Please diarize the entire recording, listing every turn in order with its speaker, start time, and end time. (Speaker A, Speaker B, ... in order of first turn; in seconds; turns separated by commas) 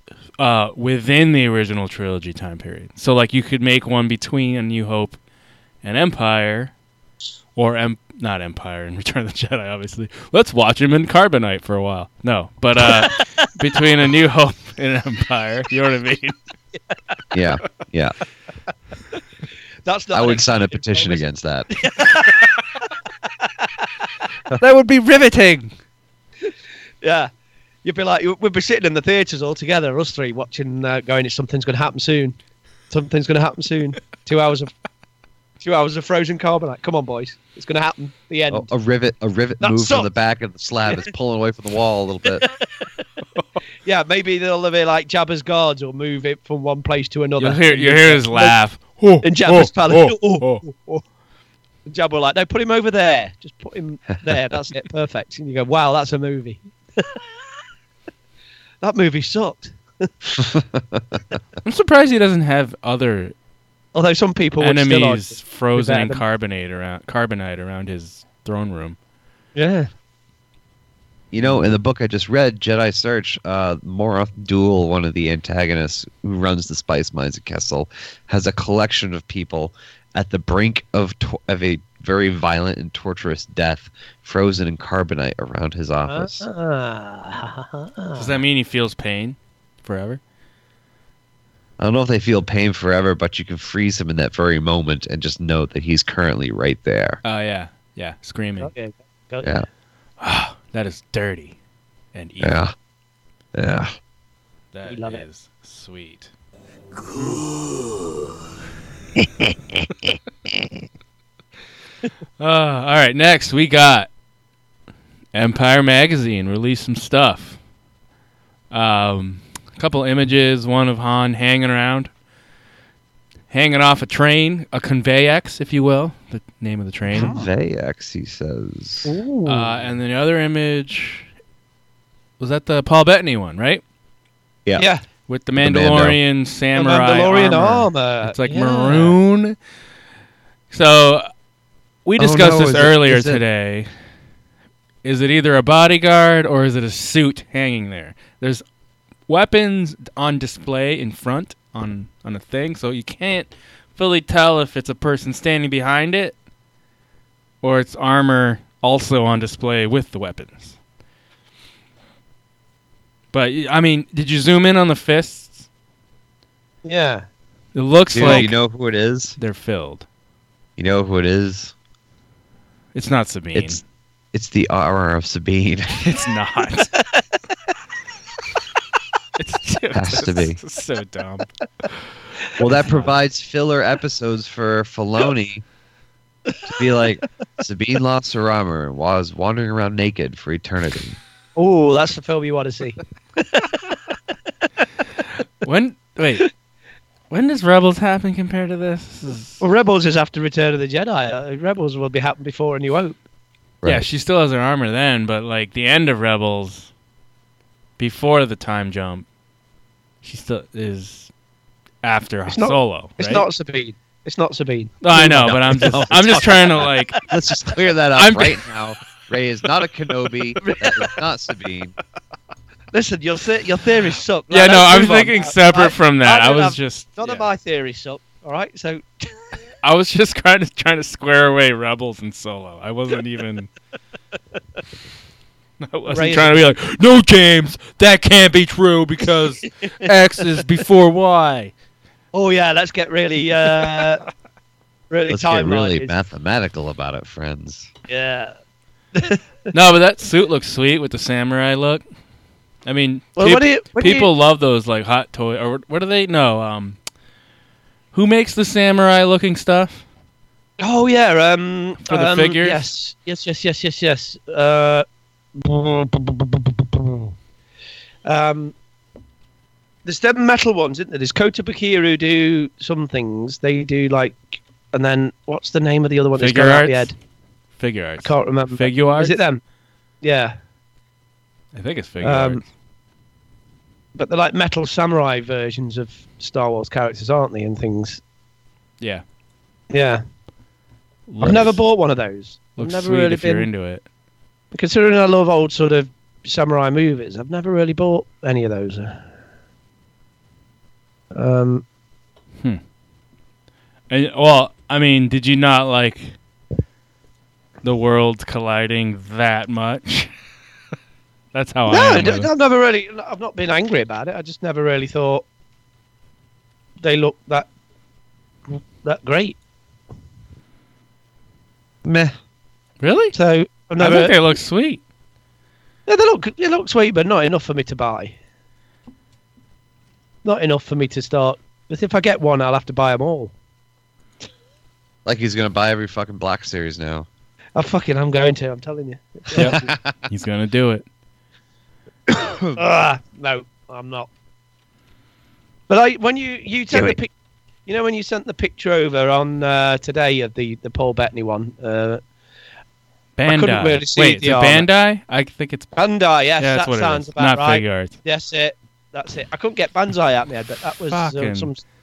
Speaker A: 0.4-5.2, Speaker A: 5.8-6.7, Speaker A: 7.6-16.4, Speaker B: 12.8-13.5, Speaker C: 17.3-18.1, Speaker B: 19.9-24.1, Speaker C: 20.1-21.7, Speaker A: 24.6-25.7, Speaker B: 26.4-27.3, Speaker B: 27.8-32.4, Speaker B: 32.9-34.7, Speaker B: 35.6-38.7, Speaker C: 38.5-42.5, Speaker B: 39.6-40.1, Speaker B: 43.9-48.6, Speaker A: 47.4-50.6, Speaker B: 49.2-51.0, Speaker B: 51.9-57.2, Speaker B: 58.8-60.1, Speaker C: 60.4-61.2, Speaker A: 61.6-63.3, Speaker B: 64.0-66.2, Speaker A: 64.6-69.0, Speaker B: 69.6-69.9, Speaker C: 71.3-86.5, Speaker B: 86.1-88.4, Speaker A: 88.2-90.2, Speaker C: 91.8-97.2, Speaker A: 97.2-98.7, Speaker B: 98.6-99.5, Speaker A: 100.2-101.6, Speaker A: 102.1-102.6, Speaker C: 102.4-102.7, Speaker C: 103.5-103.9, Speaker A: 104.7-106.3, Speaker B: 104.9-105.2, Speaker B: 107.2-107.4, Speaker A: 112.4-114.1, Speaker A: 115.3-117.6, Speaker A: 118.7-122.1, Speaker A: 123.5-127.3, Speaker B: 127.1-127.5, Speaker C: 127.2-129.2, Speaker B: 129.1-129.7, Speaker A: 129.5-131.3, Speaker A: 132.4-133.8, Speaker B: 134.8-135.0, Speaker A: 135.3-139.6, Speaker C: 135.6-136.2, Speaker B: 136.7-139.2, Speaker A: 140.7-141.3, Speaker A: 142.1-143.9, Speaker C: 142.2-143.4, Speaker A: 145.0-148.6, Speaker A: 149.3-156.3, Speaker A: 157.6-160.8, Speaker A: 163.3-165.7, Speaker B: 166.8-167.2, Speaker A: 167.8-168.6, Speaker C: 168.1-169.4, Speaker B: 168.2-168.5, Speaker A: 169.4-170.1, Speaker C: 170.8-171.7, Speaker A: 172.9-173.8, Speaker C: 173.6-173.8, Speaker C: 174.3-176.1, Speaker A: 176.0-176.9, Speaker A: 179.4-181.9, Speaker C: 179.9-180.6, Speaker C: 182.6-185.6, Speaker C: 186.7-191.2, Speaker B: 191.6-193.8, Speaker A: 195.6-196.5, Speaker A: 197.3-199.6, Speaker B: 199.6-203.2, Speaker A: 203.8-206.9, Speaker A: 208.0-209.3, Speaker A: 210.2-211.3, Speaker A: 212.0-213.5, Speaker B: 212.5-217.2, Speaker A: 215.0-217.2, Speaker C: 215.7-221.9, Speaker A: 218.2-218.6, Speaker B: 220.6-221.2, Speaker B: 222.9-229.3, Speaker A: 224.5-227.5, Speaker A: 229.8-233.7, Speaker A: 235.8-241.7, Speaker B: 236.1-236.8, Speaker B: 242.3-244.2, Speaker B: 245.1-246.1, Speaker C: 245.3-247.9, Speaker B: 248.1-248.6, Speaker B: 249.1-249.4, Speaker A: 249.7-252.0, Speaker A: 252.9-257.0, Speaker B: 253.4-254.3, Speaker A: 258.1-260.1, Speaker B: 260.8-267.3, Speaker A: 262.1-262.9, Speaker B: 268.2-268.7, Speaker B: 270.1-277.1, Speaker A: 276.4-277.1, Speaker A: 277.8-279.4, Speaker B: 278.2-279.6, Speaker B: 280.2-280.6, Speaker A: 281.7-282.6, Speaker B: 282.2-282.6, Speaker B: 284.2-288.2, Speaker B: 289.9-290.2, Speaker A: 291.3-291.8, Speaker B: 291.4-293.7, Speaker A: 292.8-294.0, Speaker B: 294.7-299.2, Speaker B: 301.3-301.9, Speaker A: 304.1-306.4, Speaker A: 307.8-310.3, Speaker A: 311.5-312.5, Speaker B: 311.9-315.4, Speaker B: 317.0-317.7, Speaker B: 318.7-319.6, Speaker C: 322.0-322.4, Speaker A: 323.0-323.4, Speaker B: 323.3-324.4, Speaker A: 324.0-325.0, Speaker B: 326.1-328.4, Speaker B: 330.4-333.5, Speaker C: 335.2-337.3, Speaker B: 337.8-339.9, Speaker C: 339.6-340.2, Speaker A: 339.6-341.1, Speaker C: 342.3-342.8, Speaker B: 342.8-344.3, Speaker B: 345.9-347.3, Speaker C: 346.9-347.2, Speaker B: 347.9-352.2, Speaker A: 353.4-355.9, Speaker B: 353.5-354.9, Speaker B: 356.0-361.8, Speaker A: 356.6-358.1, Speaker A: 361.1-361.7